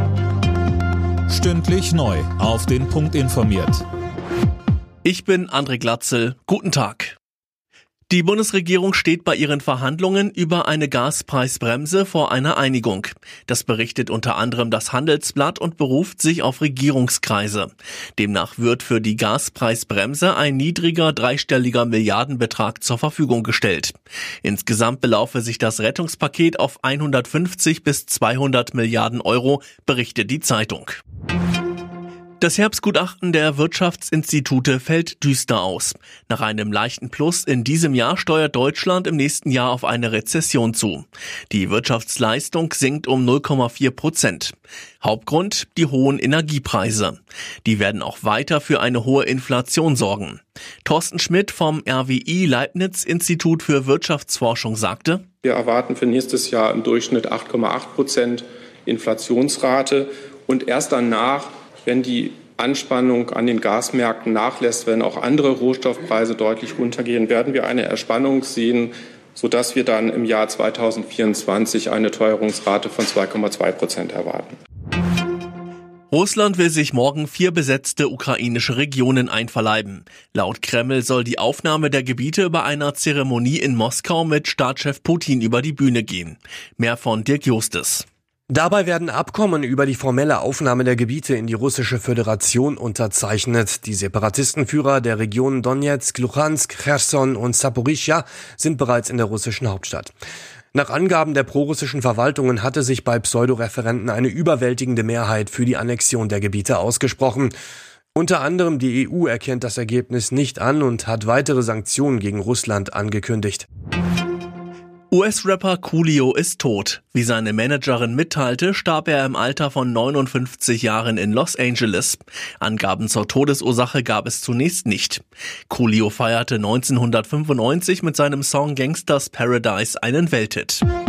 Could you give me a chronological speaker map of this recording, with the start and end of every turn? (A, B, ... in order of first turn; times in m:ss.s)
0:01.3-0:03.8 A
0:05.0-0:07.2 B
0:08.1-0:31.0 B
0:32.4-0:55.2 B
0:55.4-1:14.5 C
1:16.1-1:28.0 B
1:28.5-1:40.1 D
1:40.7-1:47.5 D
1:48.1-1:53.6 D
1:55.1-2:10.8 B